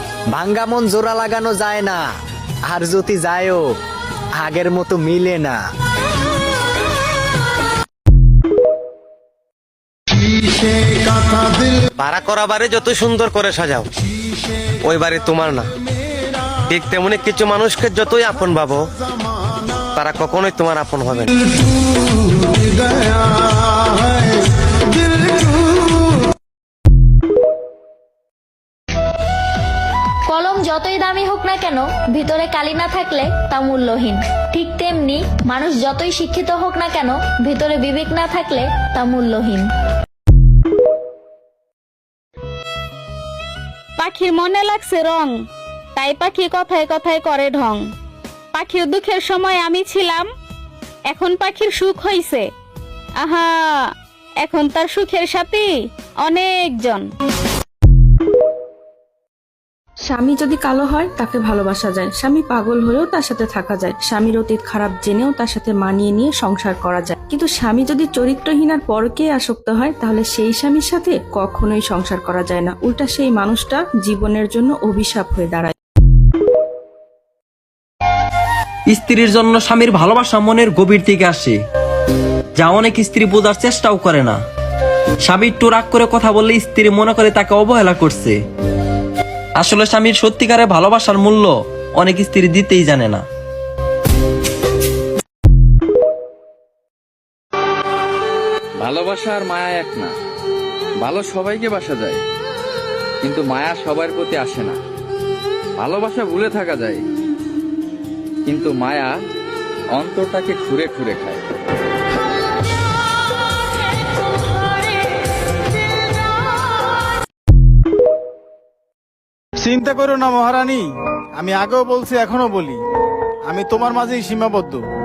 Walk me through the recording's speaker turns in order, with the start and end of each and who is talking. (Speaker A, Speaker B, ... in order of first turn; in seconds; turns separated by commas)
Speaker A: 0.3-3.8, Speaker A: 4.3-5.6, Speaker B: 12.0-13.9, Speaker B: 14.8-15.6, Speaker B: 16.7-18.8, Speaker B: 19.9-21.3, Speaker C: 30.3-39.6, Speaker D: 44.0-45.3, Speaker D: 46.0-47.8, Speaker D: 48.5-50.2, Speaker D: 51.1-52.4, Speaker D: 53.2-53.8, Speaker D: 54.4-55.7, Speaker D: 56.2-57.0, Speaker E: 60.1-75.7, Speaker F: 78.9-81.5, Speaker F: 82.6-84.4, Speaker F: 85.3-88.3, Speaker F: 89.6-93.2, Speaker G: 98.8-100.1, Speaker G: 101.0-102.2, Speaker G: 103.2-104.8, Speaker G: 105.8-107.0, Speaker G: 108.5-109.1, Speaker G: 110.0-111.4, Speaker H: 119.6-122.8, Speaker H: 123.5-124.8